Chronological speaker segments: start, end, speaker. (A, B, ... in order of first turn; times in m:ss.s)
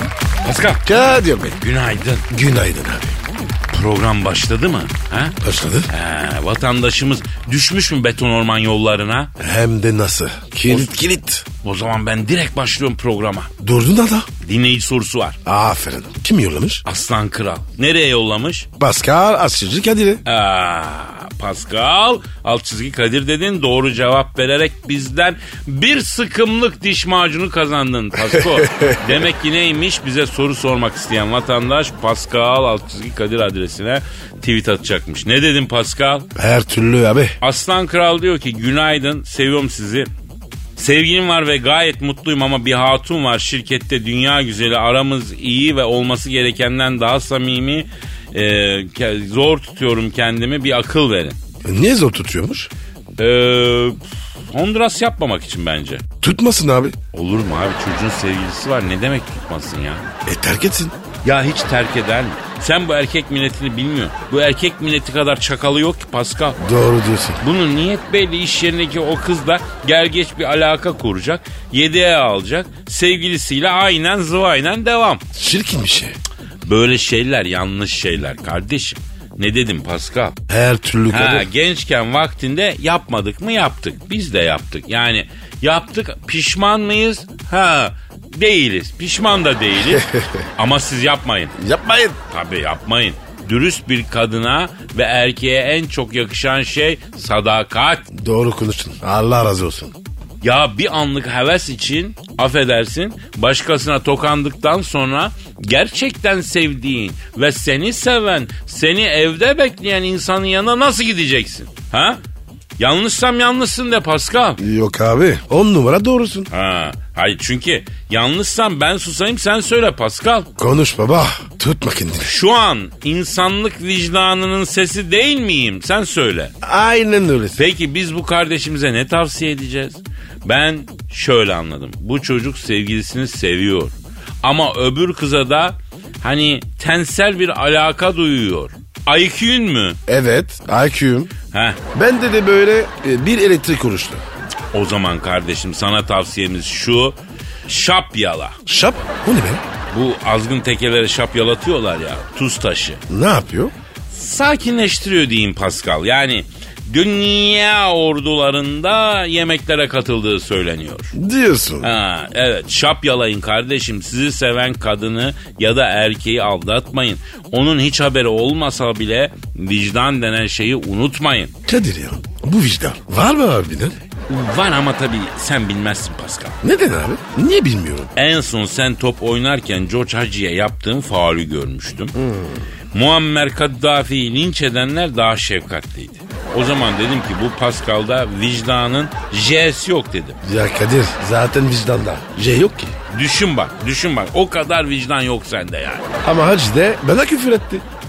0:00.4-0:00.8 A
0:00.8-0:01.6 B
0:01.6-0:02.2 A
0:02.3-0:03.2 B
0:03.7-0:05.4 A
0:05.4-0:05.9 B
0:05.9-0:09.3 A
0:09.4-0:11.4 B
0:11.6-0:13.5 A
0:13.6-0:14.3 B
0:14.4-0:15.4 A
0:15.4-0:16.8 B
0:16.8-0:18.7 A
0:18.8-0:20.2 B
0:20.2-0:36.3 A
0:28.2-0:29.2 B
0:36.3-0:37.4 B
0:37.4-0:40.1 A
0:40.8-0:51.4 A
0:51.6-0:52.7 B
0:53.2-0:54.0 A
0:54.5-0:56.0 A
0:56.2-0:57.0 B
0:57.1-1:00.0 A
1:00.2-1:01.0 B
1:01.2-1:06.6 A
1:06.6-1:07.4 B
1:07.4-1:15.2 A
1:15.3-1:16.2 B
1:16.6-1:20.4 A
1:20.5-1:21.5 B
1:21.1-1:30.0 A
1:29.9-1:30.4 B
1:30.6-1:31.5 A
1:31.6-1:32.2 B
1:32.3-1:38.0 A
1:38.1-1:40.0 B
1:40.4-1:52.2 A
1:52.8-1:54.6 A
1:54.6-1:56.5 B
1:56.5-2:00.5 A
2:00.6-2:02.3 B
2:02.2-2:06.5 A
2:06.6-2:07.6 B
2:07.6-2:20.0 A
2:20.1-2:21.3 B
2:21.5-2:21.8 A
2:21.9-2:24.2 B
2:24.7-2:28.6 A
2:28.6-2:29.6 B
2:29.9-2:33.0 A
2:33.1-2:33.7 B
2:34.1-2:41.1 A
2:41.1-2:41.9 B
2:41.8-2:51.5 A
2:51.6-2:54.0 B
2:54.3-2:56.6 A
2:56.6-2:58.1 B
2:58.2-3:02.1 A
3:02.1-3:02.6 B
3:02.9-3:10.4 A
3:10.4-3:12.9 B
3:13.1-3:16.2 A
3:16.2-3:17.8 B